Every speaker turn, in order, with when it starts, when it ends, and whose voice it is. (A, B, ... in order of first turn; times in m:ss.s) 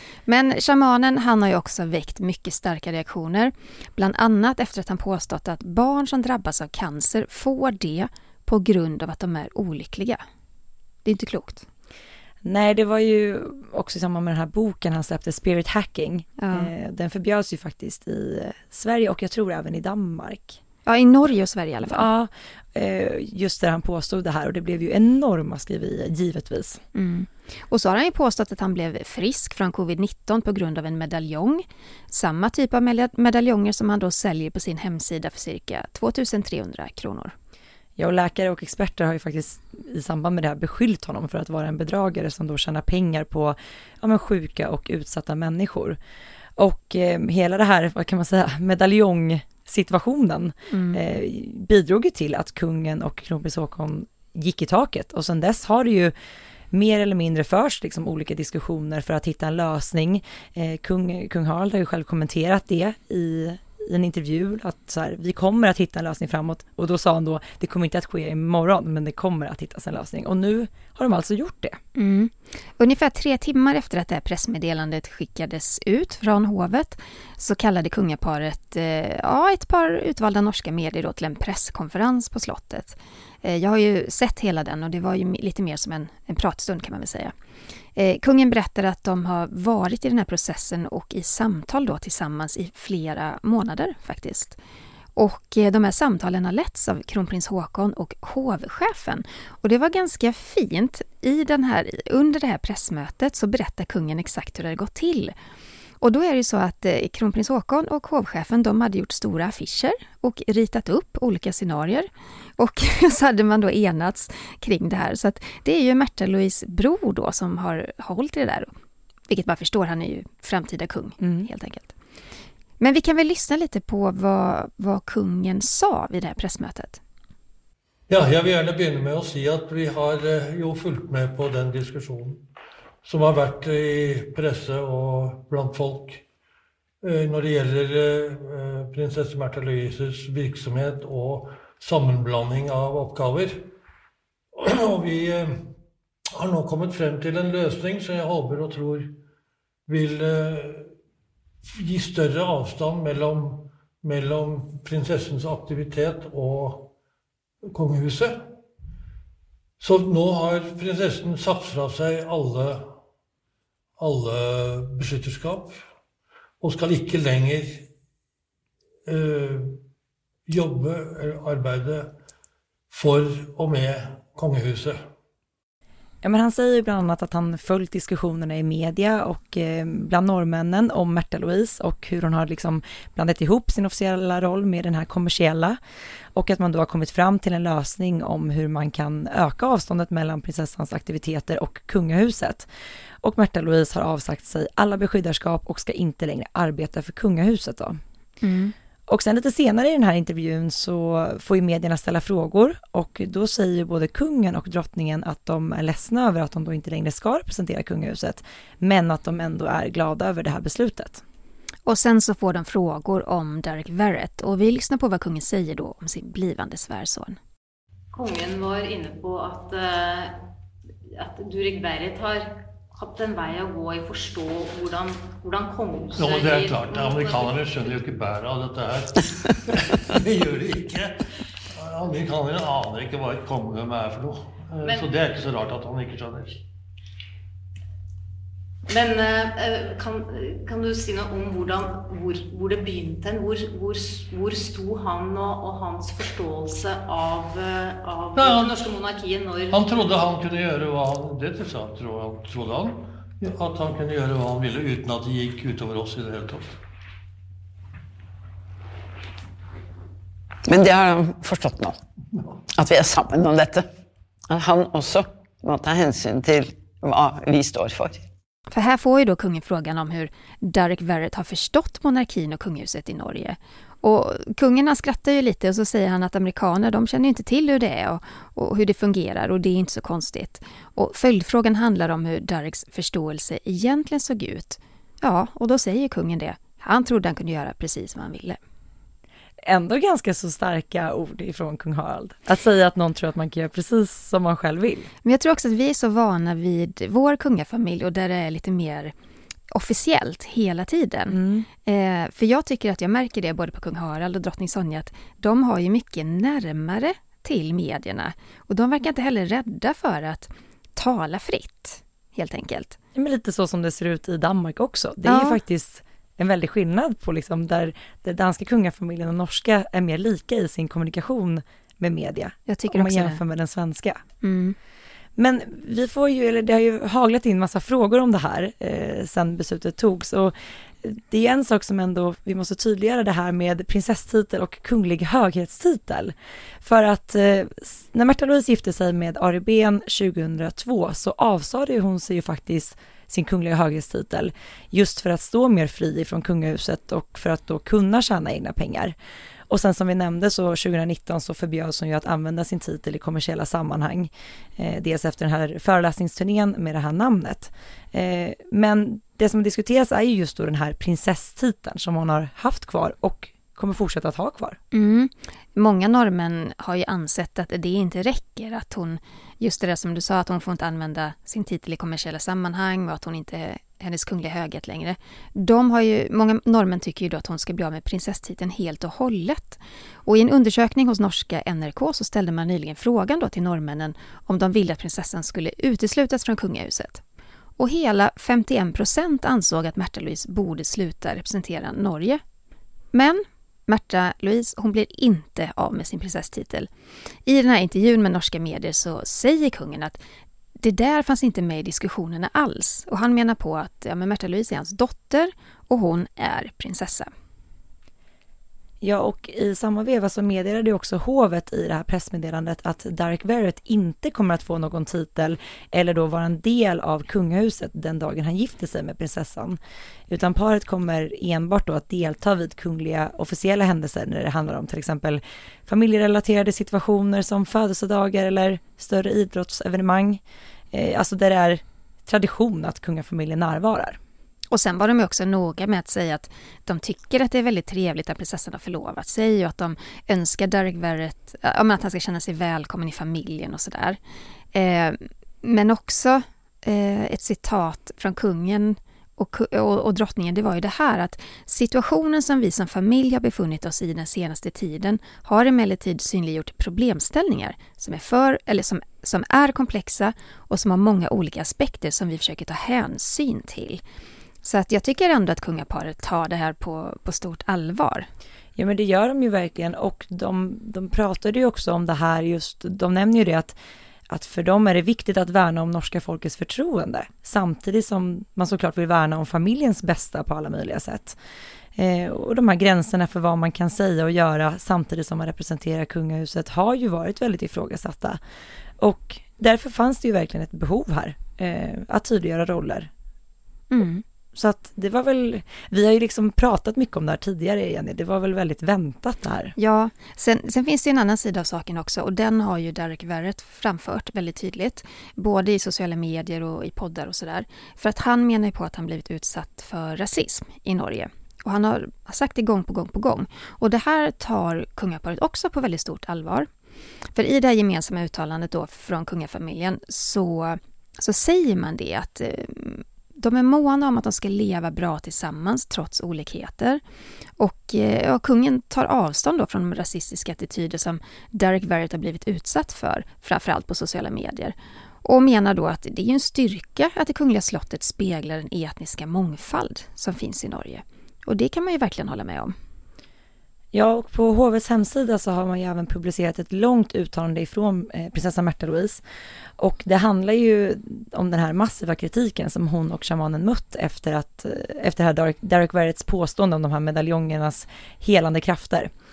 0:00.3-0:10.2 A
0:11.0-0:11.6 A
0:12.4-0:20.6 B
0:16.4-0:16.7 A
0:20.8-0:22.1 A
0:21.9-0:26.8 B
0:26.9-0:37.3 A
0:38.0-0:46.0 B
0:46.6-0:56.1 B
0:50.7-0:51.0 A
0:56.7-1:11.8 B
1:11.9-1:27.3 A
1:27.9-1:34.6 A
1:35.2-1:45.3 A
1:46.0-1:58.7 A
1:59.3-2:01.9 A
2:01.2-2:01.5 B
2:02.8-2:07.0 A
2:08.1-2:12.4 C
2:13.0-2:16.2 C
2:17.0-2:23.7 C
2:24.6-2:25.7 C
2:26.4-2:29.1 C
2:29.9-2:30.9 C
2:31.7-2:36.9 C
2:37.7-2:38.4 C
2:39.8-2:42.9 C
2:44.0-2:45.8 C
2:46.6-2:47.9 C
2:49.0-2:49.8 C
2:50.5-2:52.1 C
2:52.9-2:55.0 C
2:56.2-3:05.8 B
3:06.3-3:12.7 B
3:13.2-3:18.0 B
3:18.4-3:18.7 A
3:19.1-3:31.2 B
3:31.8-3:37.4 A
3:38.1-3:40.4 D
3:41.1-3:47.7 D
3:46.2-3:51.2 C
3:51.7-3:56.6 C
3:54.8-3:55.1 D
3:58.9-4:09.9 D
4:08.4-4:08.8 C
4:09.7-4:16.8 C
4:20.7-4:22.0 E
4:22.8-4:23.9 E
4:24.5-4:28.3 E
4:28.7-4:48.6 A
4:49.6-4:55.1 B
4:55.2-4:59.1 A
4:59.7-5:13.0 A
5:01.3-5:01.7 B
5:13.1-5:24.2 B
5:15.2-5:15.6 A
5:22.7-5:23.4 A
5:24.4-5:24.8 A
5:25.4-5:49.1 B
5:49.7-6:04.8 B
6:04.9-6:27.2 A
6:27.8-6:32.4 A
6:33.1-6:36.9 A
6:37.4-6:40.2 A
6:40.8-6:47.3 A
6:49.0-7:14.2 B
7:14.7-7:24.2 A
7:24.7-7:44.0 A
7:44.6-7:48.3 A
7:48.8-7:53.8 B
7:54.3-8:01.4 B
8:02.0-8:08.4 B
8:09.0-8:13.1 B
8:13.9-8:14.2 A
8:14.5-8:19.7 B
8:19.8-8:36.7 A
8:37.3-8:47.0 A
8:47.6-9:02.7 A
9:03.9-9:09.2 B
9:09.8-9:19.1 B